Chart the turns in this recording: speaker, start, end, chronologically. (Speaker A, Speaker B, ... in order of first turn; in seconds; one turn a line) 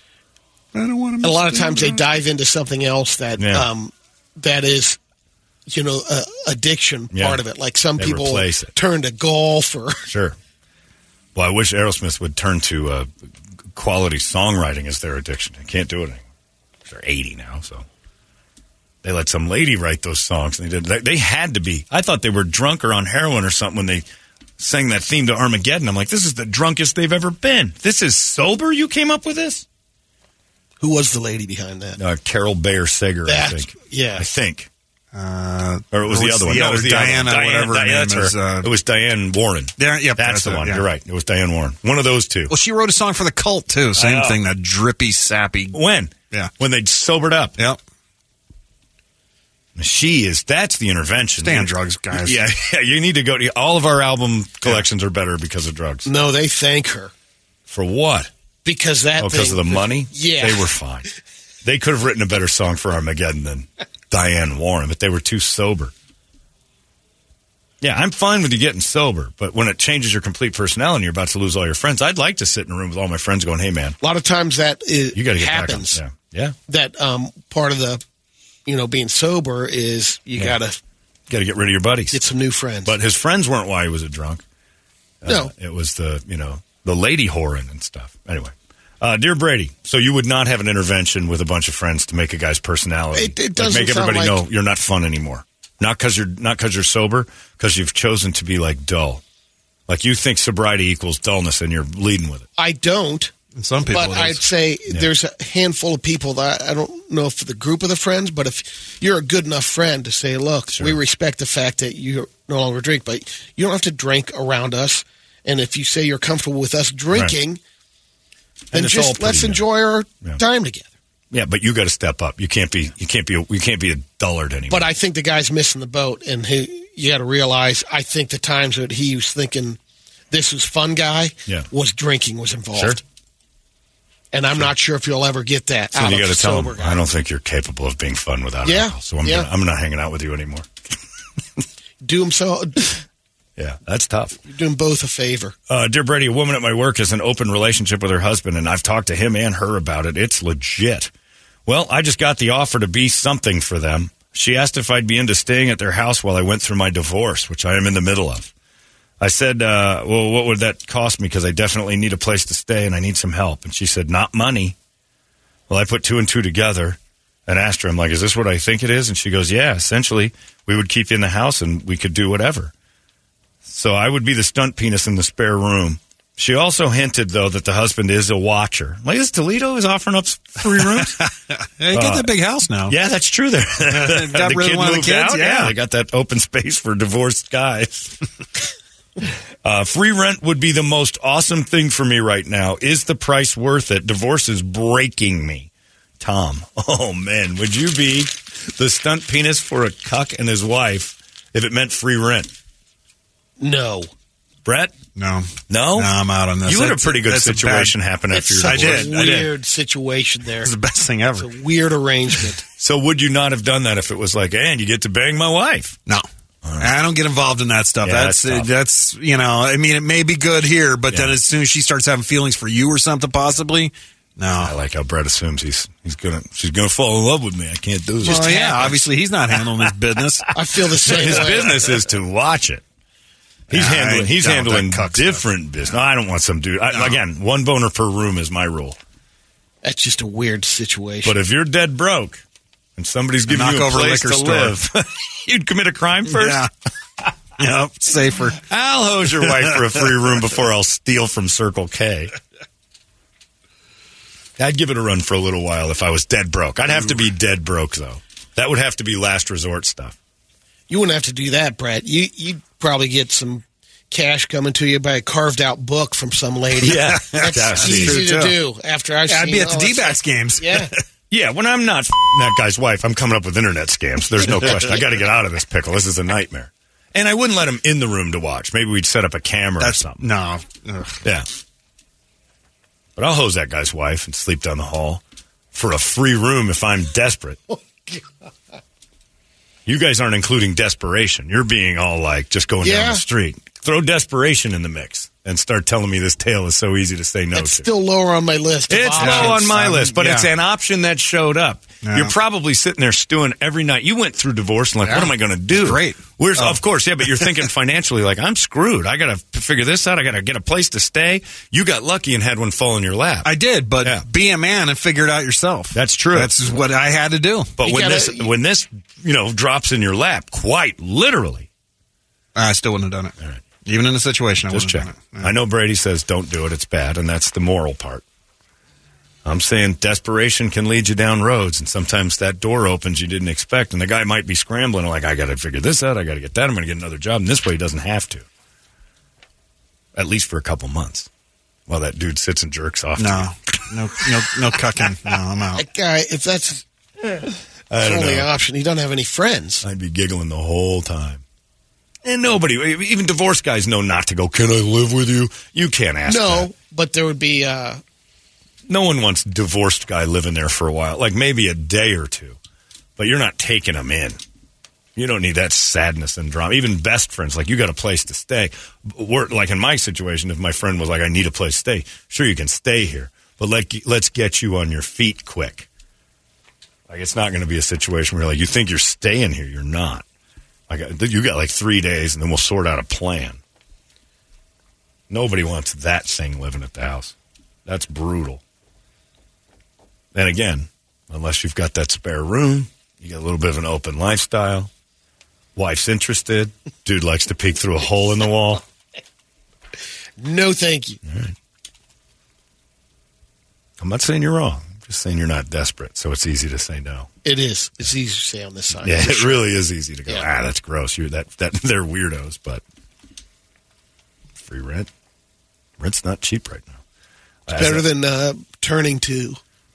Speaker A: 0.7-2.0
Speaker B: 1.2-5.0
Speaker C: 3.4-3.7
Speaker B: 5.7-10.1
Speaker C: 7.1-7.4
Speaker C: 8.0-8.7
Speaker C: 10.1-10.4
Speaker C: 11.3-13.1
Speaker C: 13.7-16.2
Speaker C: 16.9-17.9
Speaker C: 19.0-24.1
Speaker C: 24.6-29.6
Speaker B: 30.8-32.0
Speaker C: 32.0-34.7
Speaker B: 33.2-34.2
Speaker A: 35.1-38.7
Speaker C: 35.9-42.5
Speaker A: 39.8-40.8
Speaker A: 42.5-45.8
Speaker C: 44.0-44.4
Speaker C: 45.7-47.5
Speaker C: 49.8-56.1
Speaker A: 51.4-52.4
Speaker B: 56.0-57.1
Speaker C: 57.7-58.3
Speaker B: 58.6-60.7
Speaker C: 59.2-61.1
Speaker C: 61.6-65.9
Speaker C: 67.8-74.0
Speaker B: 74.0-76.0
Speaker C: 75.1-76.5
Speaker B: 76.7-78.0
Speaker B: 78.7-80.8
Speaker C: 81.3-82.2
Speaker B: 82.1-83.0
Speaker C: 82.8-84.4
Speaker C: 85.2-99.2
Speaker B: 85.2-85.5
Speaker B: 93.1-94.4
Speaker C: 99.9-102.5
Speaker B: 102.6-103.3
Speaker A: 103.5-104.4
Speaker B: 103.9-117.6
Speaker C: 118.7-119.6
Speaker B: 118.7-120.9
Speaker C: 121.3-124.9
Speaker B: 124.7-129.8
Speaker B: 130.3-133.0
Speaker B: 134.3-137.0
Speaker C: 135.9-140.7
Speaker B: 138.6-139.5
Speaker B: 142.0-143.0
Speaker C: 143.6-144.4
Speaker B: 144.5-145.6
Speaker C: 145.7-151.1
Speaker C: 151.7-158.5
Speaker C: 159.2-164.8
Speaker C: 165.7-172.7
Speaker C: 173.6-181.2
Speaker A: 180.8-182.9
Speaker C: 181.9-182.3
Speaker C: 182.9-188.2
Speaker A: 183.9-185.7
Speaker C: 189.2-195.7
Speaker C: 196.2-202.5
Speaker B: 203.6-204.1
Speaker C: 204.6-205.0
Speaker A: 205.1-207.9
Speaker C: 205.7-206.1
Speaker C: 206.6-209.5
Speaker B: 208.3-210.7
Speaker A: 208.6-209.4
Speaker A: 210.6-211.5
Speaker B: 211.4-212.6
Speaker C: 212.8-216.0
Speaker C: 216.6-216.9
Speaker A: 216.8-224.7
Speaker C: 218.0-218.7
Speaker C: 224.6-229.1
Speaker A: 228.2-230.5
Speaker B: 230.5-231.9
Speaker C: 231.0-232.8
Speaker A: 233.7-235.4
Speaker C: 233.7-239.0
Speaker B: 239.8-241.3
Speaker C: 241.2-242.4
Speaker C: 243.0-246.7
Speaker A: 243.5-244.8
Speaker A: 246.3-246.7
Speaker A: 247.6-248.6
Speaker C: 248.6-252.3
Speaker C: 254.6-260.1
Speaker B: 260.9-270.9
Speaker C: 266.8-268.2
Speaker A: 266.9-268.6
Speaker A: 269.3-270.9
Speaker C: 271.3-280.2
Speaker A: 279.8-281.2
Speaker C: 283.1-285.2
Speaker C: 285.7-287.6
Speaker B: 287.7-288.2
Speaker C: 289.9-297.9
Speaker B: 292.8-293.2
Speaker B: 297.5-300.0
Speaker C: 298.9-314.2
Speaker A: 299.2-300.5
Speaker A: 302.0-302.3
Speaker A: 305.0-306.8
Speaker A: 313.4-317.7
Speaker C: 315.9-316.5
Speaker C: 317.8-321.7
Speaker B: 317.8-318.5
Speaker A: 322.6-325.5
Speaker C: 324.7-328.2
Speaker C: 329.4-338.4
Speaker C: 340.1-341.3
Speaker C: 341.9-343.8
Speaker A: 343.2-345.8
Speaker B: 345.8-346.8
Speaker C: 347.9-348.5
Speaker B: 348.0-349.8
Speaker C: 349.8-351.4
Speaker C: 352.2-356.7
Speaker B: 356.2-358.0
Speaker C: 358.9-362.6
Speaker C: 363.2-364.4
Speaker C: 365.1-375.9
Speaker C: 377.1-380.2
Speaker C: 380.9-383.6
Speaker C: 385.3-387.3
Speaker C: 387.9-388.6
Speaker C: 390.3-394.9
Speaker C: 395.8-398.8
Speaker B: 400.4-401.2
Speaker C: 401.2-401.5
Speaker C: 404.0-407.3
Speaker B: 407.4-409.6
Speaker C: 409.0-412.8
Speaker C: 414.6-415.1
Speaker C: 416.0-417.0
Speaker C: 417.7-418.1
Speaker B: 417.7-419.6